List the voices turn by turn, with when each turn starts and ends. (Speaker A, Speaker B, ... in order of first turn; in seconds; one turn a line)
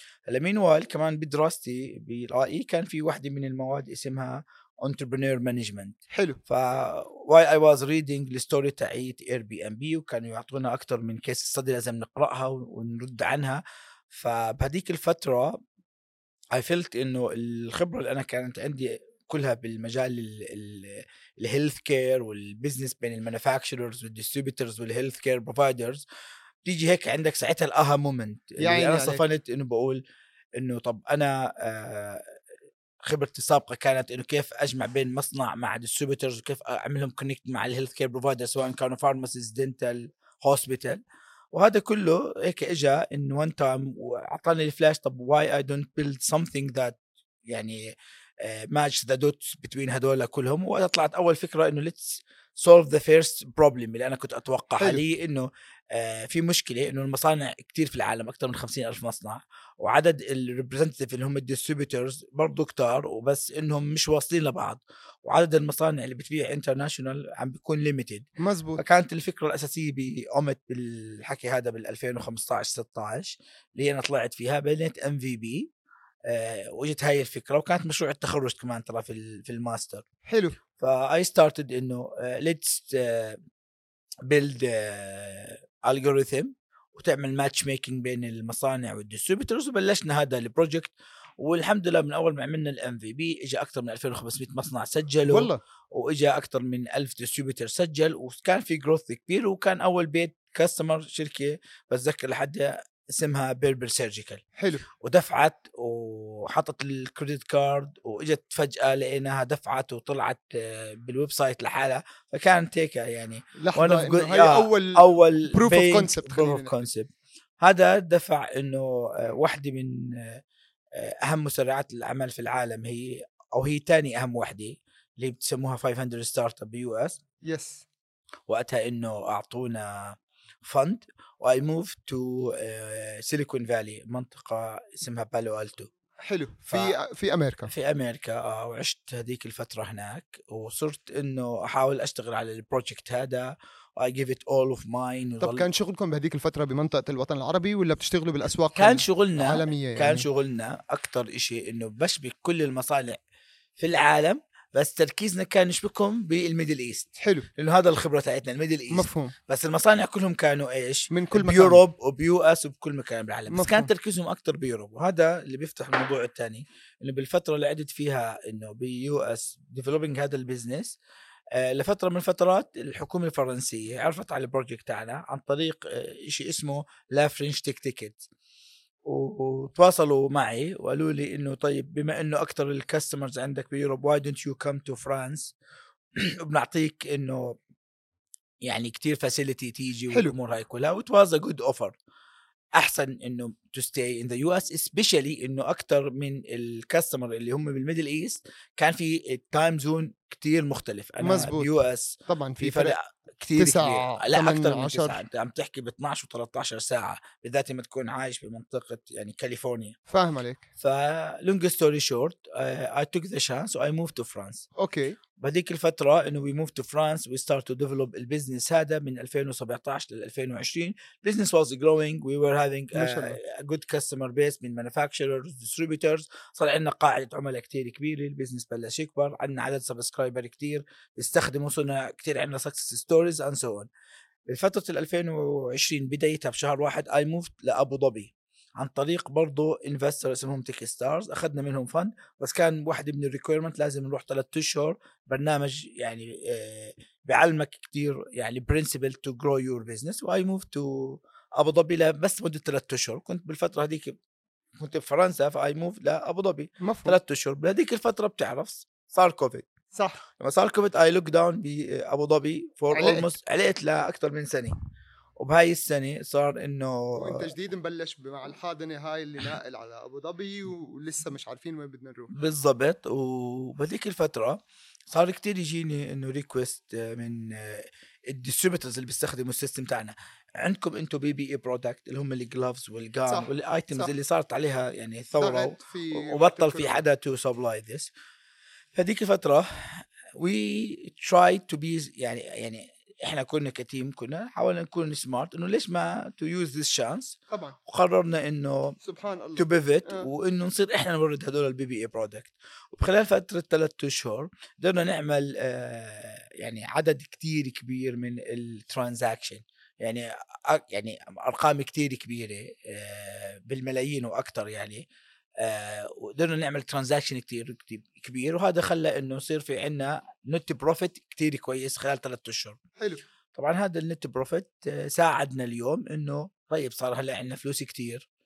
Speaker A: 0.3-15.6
Speaker B: 6.1-6.4
Speaker A: 16.5-26.0
Speaker A: 26.7-30.0
Speaker B: 28.6-29.2
Speaker A: 30.6-32.2
Speaker A: 33.0-41.0
Speaker A: 41.5-47.8
Speaker A: 48.4-75.7
Speaker B: 68.4-68.8
Speaker A: 76.3-80.0
Speaker B: 80.3-80.6
Speaker A: 80.8-83.4
Speaker A: 84.3-104.4
Speaker B: 95.3-95.6
Speaker B: 104.6-104.8
Speaker A: 105.0-117.1
Speaker B: 113.6-116.7
Speaker A: 117.6-120.4
Speaker A: 121.0-127.2
Speaker B: 127.4-127.9
Speaker A: 128.5-135.9
Speaker B: 136.2-137.7
Speaker A: 136.7-136.9
Speaker A: 137.7-145.7
Speaker B: 145.4-150.3
Speaker A: 148.8-153.2
Speaker A: 153.8-171.0
Speaker B: 157.2-157.5
Speaker B: 158.9-159.3
Speaker B: 161.1-161.8
Speaker B: 163.5-163.9
Speaker A: 171.6-178.3
Speaker A: 179.1-185.5
Speaker A: 186.4-187.6
Speaker A: 188.6-191.9
Speaker A: 192.8-210.0
Speaker B: 201.2-201.8
Speaker B: 202.3-203.0
Speaker B: 203.6-205.2
Speaker B: 210.1-210.6
Speaker A: 210.8-214.7
Speaker B: 214.8-215.2
Speaker A: 215.4-233.9
Speaker B: 222.9-223.4
Speaker A: 234.5-254.2
Speaker A: 254.8-259.7
Speaker B: 256.8-257.2
Speaker B: 259.9-260.2
Speaker A: 260.4-264.8
Speaker B: 262.9-263.3
Speaker A: 265.4-267.5
Speaker B: 267.2-272.3
Speaker A: 272.3-288.1
Speaker B: 283.3-284.1
Speaker B: 285.4-287.0
Speaker A: 288.9-299.0
Speaker B: 297.5-297.8
Speaker B: 299.0-300.3
Speaker A: 299.6-315.1
Speaker A: 315.6-322.8
Speaker B: 323.0-323.2
Speaker A: 323.6-328.3